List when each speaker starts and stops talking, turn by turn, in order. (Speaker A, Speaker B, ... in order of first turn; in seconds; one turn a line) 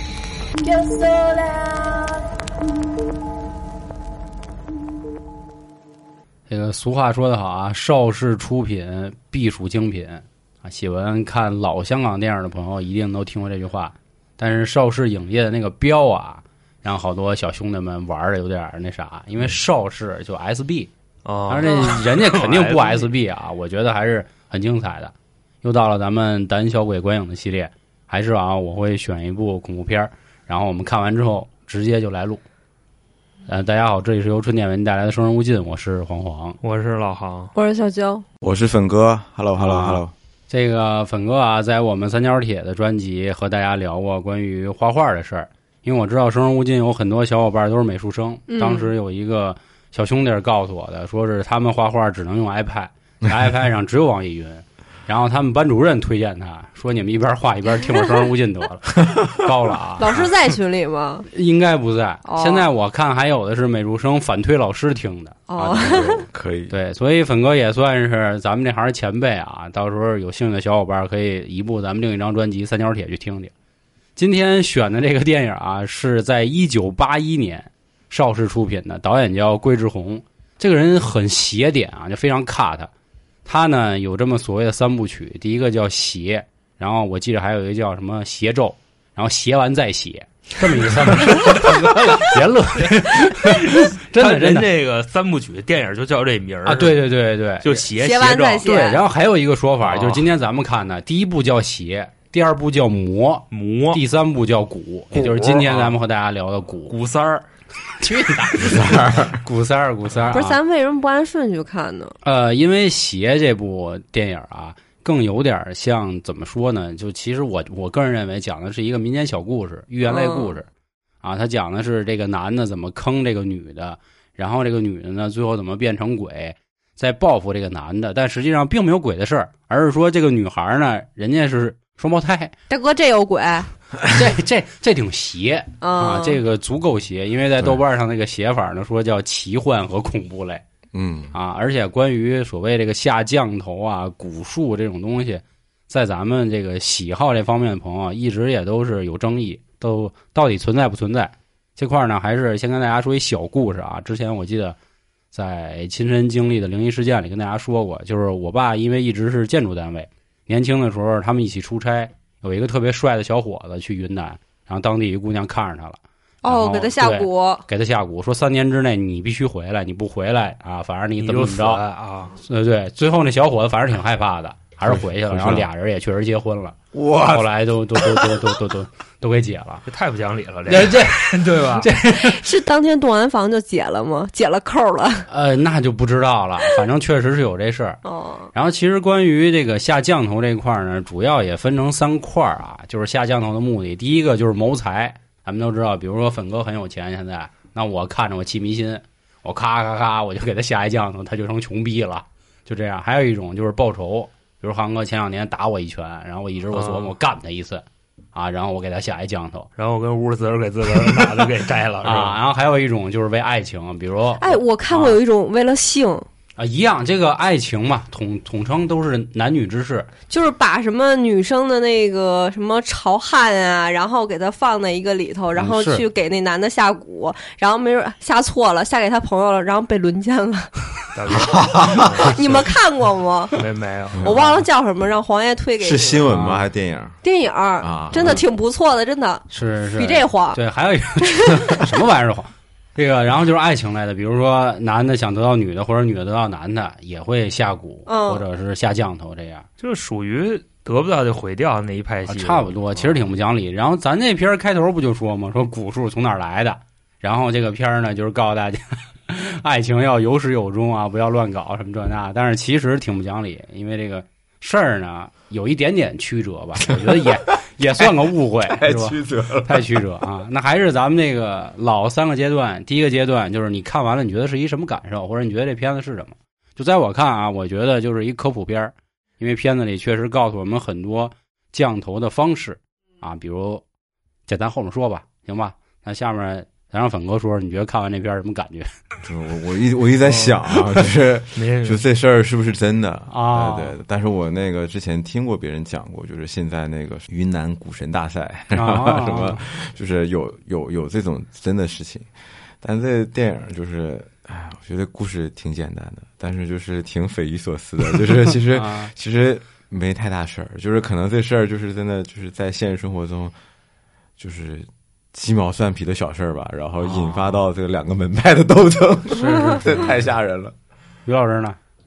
Speaker A: 0.6-2.1
Speaker B: 6.5-20.9
Speaker C: 21.2-23.1
Speaker B: 21.5-32.4
Speaker A: 21.6-22.0
Speaker B: 33.5-36.6
Speaker C: 36.6-37.5
Speaker A: 37.5-38.2
Speaker D: 38.4-40.1
Speaker B: 39.6-60.2
Speaker A: 48.5-48.9
Speaker A: 60.0-61.3
Speaker B: 61.3-65.5
Speaker A: 62.2-62.7
Speaker A: 65.5-66.2
Speaker D: 65.6-66.7
Speaker B: 66.7-73.5
Speaker B: 74.2-82.9
Speaker B: 83.5-94.7
Speaker C: 91.2-92.2
Speaker C: 93.4-97.0
Speaker B: 96.7-97.8
Speaker C: 97.6-98.7
Speaker A: 98.0-99.0
Speaker B: 98.6-106.9
Speaker C: 99.8-100.3
Speaker C: 103.5-104.0
Speaker C: 105.1-106.0
Speaker C: 106.9-107.4
Speaker B: 108.0-110.6
Speaker D: 108.5-109.4
Speaker A: 110.3-112.2
Speaker B: 112.2-120.7
Speaker A: 120.0-120.5
Speaker B: 121.2-132.5
Speaker A: 132.7-133.7
Speaker B: 134.1-140.6
Speaker A: 135.8-136.4
Speaker D: 140.9-141.3
Speaker B: 141.3-154.8
Speaker B: 155.3-171.8
Speaker A: 166.4-167.7
Speaker C: 171.2-172.3
Speaker B: 172.4-176.8
Speaker D: 174.8-175.7
Speaker D: 176.9-178.3
Speaker B: 177.3-179.8
Speaker C: 179.9-181.9
Speaker B: 180.7-182.4
Speaker A: 182.1-185.3
Speaker B: 185.3-188.0
Speaker A: 188.1-188.5
Speaker B: 188.5-209.7
Speaker C: 206.7-207.1
Speaker C: 209.8-212.4
Speaker B: 211.0-211.3
Speaker B: 212.0-215.2
Speaker A: 214.4-216.3
Speaker B: 216.6-220.1
Speaker A: 220.3-230.9
Speaker B: 225.6-226.1
Speaker C: 231.2-232.3
Speaker D: 231.4-232.6
Speaker A: 232.2-233.6
Speaker C: 233.6-234.2
Speaker D: 234.1-234.4
Speaker A: 234.2-236.3
Speaker B: 234.3-234.6
Speaker D: 235.8-237.2
Speaker B: 236.3-236.6
Speaker A: 237.2-240.6
Speaker D: 237.8-238.4
Speaker B: 239.5-249.7
Speaker A: 241.3-241.8
Speaker A: 248.1-248.4
Speaker C: 249.8-253.2
Speaker B: 252.3-283.8
Speaker D: 266.9-267.2
Speaker D: 268.7-270.0
Speaker B: 284.5-289.0
Speaker D: 289.2-302.3
Speaker C: 291.6-292.0
Speaker B: 293.3-293.9
Speaker B: 298.7-299.6
Speaker D: 302.8-313.5
Speaker B: 308.7-309.1
Speaker D: 314.4-320.7
Speaker B: 317.1-317.5
Speaker B: 319.4-320.1
Speaker B: 321.3-321.8